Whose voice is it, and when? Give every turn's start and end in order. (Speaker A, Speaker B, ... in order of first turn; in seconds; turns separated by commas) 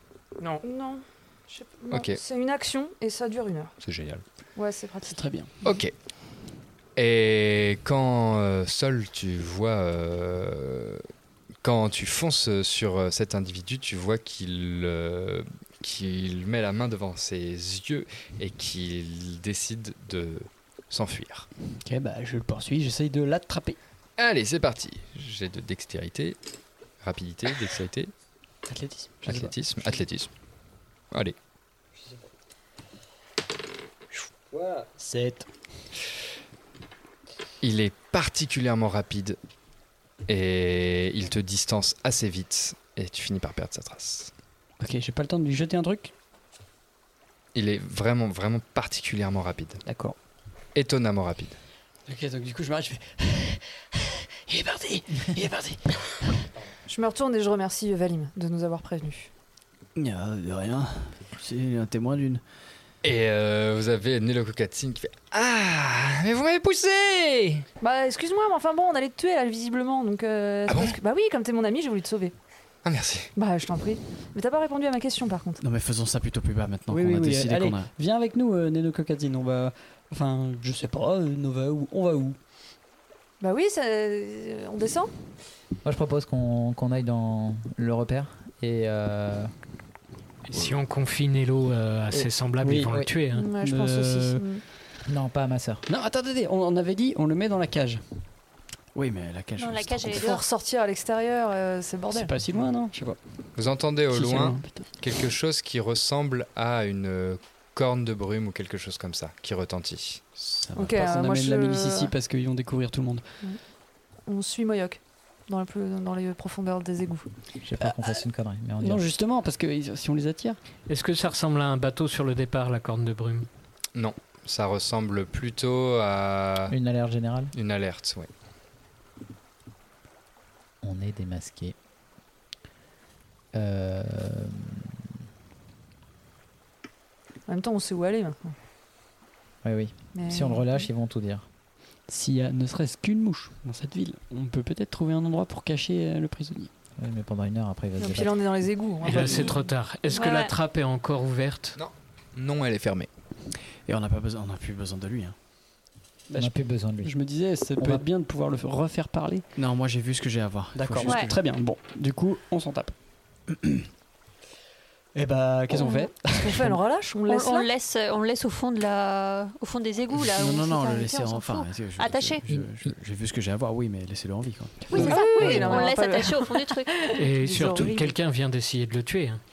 Speaker A: 0.4-3.7, Speaker B: 1.9-2.2, Speaker B: 3.8-4.2, Speaker A: 4.5-5.7, Speaker C: 5.1-5.5, Speaker B: 5.6-5.9, Speaker B: 7.0-11.0, Speaker B: 11.6-21.5, Speaker C: 21.8-23.8, Speaker B: 24.2-26.4, Speaker B: 27.0-28.1, Speaker C: 28.7-29.5, Speaker B: 29.2-30.3, Speaker C: 34.5-35.5, Speaker B: 37.6-39.4, Speaker B: 40.3-44.3, Speaker C: 44.8-46.1, Speaker B: 47.5-49.8, Speaker C: 49.8-50.1, Speaker B: 50.7-51.6, Speaker C: 52.1-53.6, Speaker C: 54.5-55.8, Speaker A: 56.9-59.3, Speaker D: 60.0-62.4, Speaker B: 63.0-67.6, Speaker A: 67.8-72.3, Speaker B: 70.7-71.0, Speaker B: 72.8-73.3, Speaker A: 73.3-75.6, Speaker D: 75.6-77.9, Speaker C: 76.9-82.4, Speaker A: 83.4-85.1, Speaker E: 85.8-89.5, Speaker F: 90.5-93.5, Speaker C: 92.6-93.0, Speaker A: 93.3-94.6, Speaker C: 93.6-94.4, Speaker E: 95.0-95.8, Speaker C: 95.9-98.0, Speaker D: 98.9-100.3, Speaker G: 99.6-100.4, Speaker A: 100.2-102.3, Speaker C: 102.1-103.2, Speaker B: 103.5-110.2, Speaker C: 104.1-104.9, Speaker D: 110.4-111.0, Speaker A: 110.7-112.1, Speaker C: 110.9-113.2, Speaker A: 114.3-117.3, Speaker E: 117.6-119.0, Speaker C: 117.8-118.1, Speaker C: 118.8-120.6, Speaker F: 120.9-123.5, Speaker B: 123.9-126.7, Speaker E: 126.7-127.5, Speaker B: 127.5-128.3, Speaker E: 130.8-131.8, Speaker E: 133.5-134.8, Speaker A: 137.5-138.5, Speaker E: 139.6-141.4, Speaker A: 140.1-140.9, Speaker C: 142.1-146.7, Speaker E: 147.0-148.4, Speaker A: 148.0-149.7, Speaker F: 149.0-151.8, Speaker G: 150.1-150.6, Speaker B: 151.8-153.1, Speaker D: 153.8-155.3, Speaker C: 156.3-159.4, Speaker E: 156.3-157.2, Speaker E: 157.8-158.0, Speaker D: 159.6-161.4, Speaker C: 160.7-162.9, Speaker G: 161.0-161.3, Speaker C: 165.1-166.8, Speaker A: 165.8-167.7, Speaker G: 167.3-172.4, Speaker D: 170.3-175.1, Speaker G: 174.9-177.0, Speaker A: 174.9-178.2, Speaker F: 177.2-179.4